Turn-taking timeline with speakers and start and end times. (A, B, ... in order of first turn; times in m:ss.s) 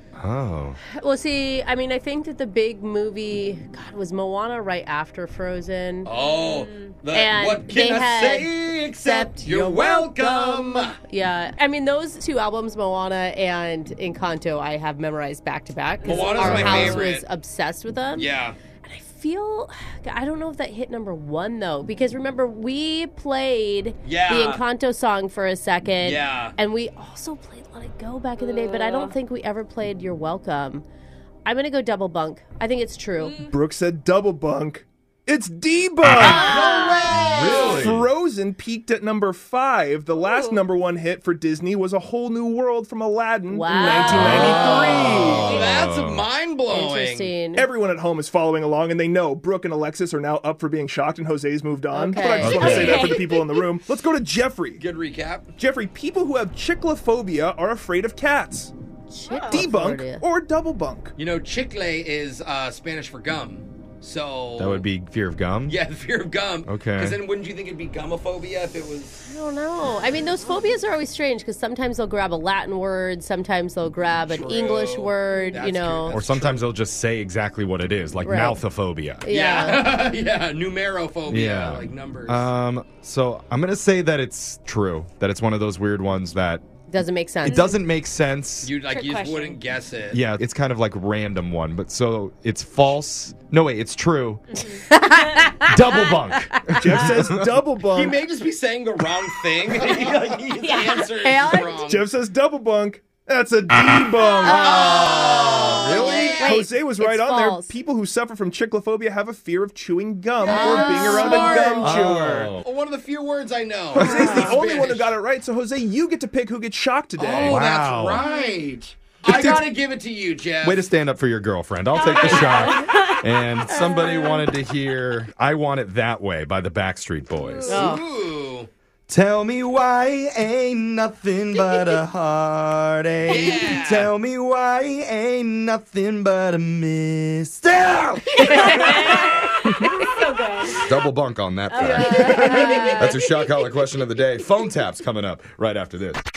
0:00.2-0:00.8 A
0:00.9-0:06.1 B
0:06.0-0:11.0 C
0:06.2-0:06.9 D
0:07.1-0:30.8 B
0:16.0-0:17.2 C
0:16.3-0:17.0 A
0:18.1-0:18.6 C
0:24.0-0:24.6 C
0:26.0-0:26.5 C
0:28.4-0:29.1 D
0:31.4-0:33.3 B
0:33.2-0:33.5 D
0:33.4-0:36.7 E
0:36.2-0:37.1 B
0:36.2-0:37.9 C
0:37.2-0:38.1 A
0:37.4-0:45.6 E
0:40.2-0:40.6 D
0:43.5-0:45.6 B
0:43.7-0:44.4 D
0:44.1-0:46.3 A
0:44.4-0:47.3 C
0:46.7-0:47.7 B
0:47.5-0:54.8 E
0:51.9-0:53.1 B
0:52.4-0:53.0 A
0:52.5-0:53.6 D
0:54.8-0:55.5 C
0:55.6-0:58.7 E
0:59.1-1:00.2 B
0:59.3-0:59.7 D
0:59.5-1:01.1 E
1:01.2-1:04.8 C
1:04.6-1:05.8 A
1:05.6-1:09.3 C
1:06.6-1:07.2 A
1:09.3-1:16.2 B
1:14.3-1:16.6 C
1:16.1-1:19.2 A
1:18.2-1:18.6 B
1:19.2-1:20.0 B
1:19.3-1:22.5 C
1:21.3-1:26.6 A
1:26.9-1:27.8 B
1:27.4-1:28.7 A
1:27.4-1:27.7 D
1:28.6-1:30.2 C
1:28.9-1:29.6 D
1:30.1-1:34.4 A
1:34.5-1:34.8 D
1:34.7-1:36.1 B
1:35.6-1:37.3 A
1:36.8-1:38.2 E
1:37.8-1:42.1 C
1:40.5-1:41.1 D
1:40.9-1:41.8 B
1:41.8-1:45.2 E
1:44.4-1:47.7 B
1:44.6-1:46.6 C
1:45.7-1:46.2 A
1:46.2-1:52.5 E
1:50.4-1:52.0 C
1:50.4-1:51.9 B
1:51.8-1:52.6 A
1:52.6-1:55.2 C
1:53.9-1:54.5 A
1:53.9-1:57.6 E
1:54.2-1:54.5 B
1:57.2-2:00.8 C
1:57.4-1:58.2 A
1:59.2-1:59.7 A
2:00.6-2:08.0 A
2:01.9-2:03.2 D
2:02.1-2:02.7 C
2:03.7-2:04.5 B
2:07.3-2:07.6 D
2:07.7-2:08.0 B
2:07.7-2:08.7 C
2:09.1-2:19.9 A
2:13.3-2:14.1 C
2:18.4-2:20.8 D
2:20.8-2:26.2 A
2:21.7-2:23.1 D
2:21.8-2:23.1 B
2:22.5-2:22.8 C